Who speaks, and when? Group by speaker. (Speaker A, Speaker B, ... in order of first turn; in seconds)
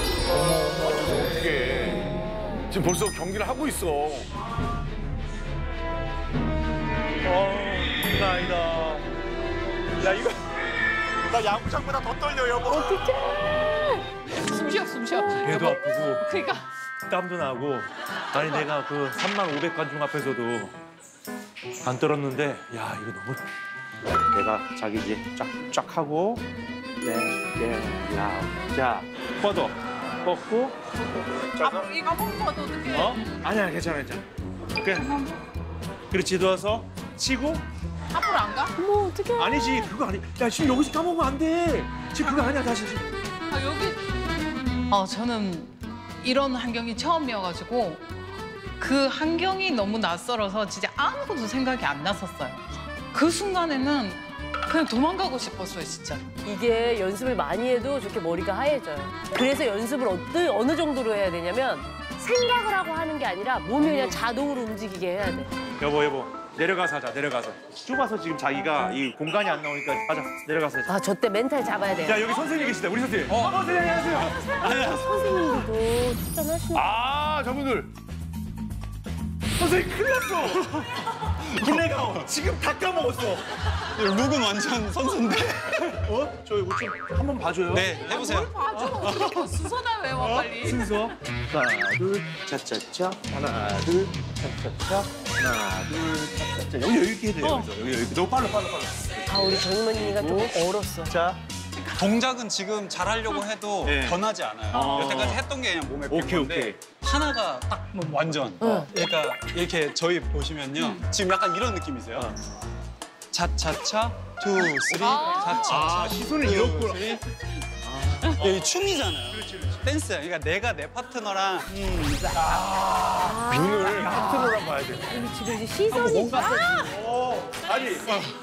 Speaker A: 0.3-4.3, 123.5-124.2
Speaker B: 7.2-9.0, 10.0-10.3, 11.3-12.6, 15.3-16.2, 17.1-20.7, 21.8-23.4, 24.3-26.4, 27.0-30.8, 31.5-31.9, 32.9-34.2, 34.8-35.0, 36.1-37.6, 39.4-43.0, 63.8-64.2, 65.8-70.9, 72.0-75.0, 76.7-77.9, 79.6-80.9, 81.5-83.4, 86.0-88.1, 88.8-89.3, 90.2-101.4, 103.8-104.2, 104.7-105.4, 106.1-106.8, 114.9-117.0, 117.8-118.5, 122.3-125.2, 126.9-128.2
Speaker C: 12.7-13.9, 38.8-39.9, 56.4-65.5, 70.8-72.4, 74.6-76.9, 99.2-101.2, 108.6-108.9, 123.2-127.0
Speaker D: 14.4-16.6, 18.4-18.6, 31.4-33.2, 34.9-35.4, 38.1-38.7, 43.5-44.0, 44.9-48.0, 48.8-56.3, 88.0-91.0, 104.7-105.1, 114.9-115.9, 125.9-126.9
Speaker E: 73.3-73.6, 74.6-75.2, 81.6-81.9, 83.9-86.0, 87.7-88.5, 101.8-112.3, 113.3-117.2, 118.3-122.6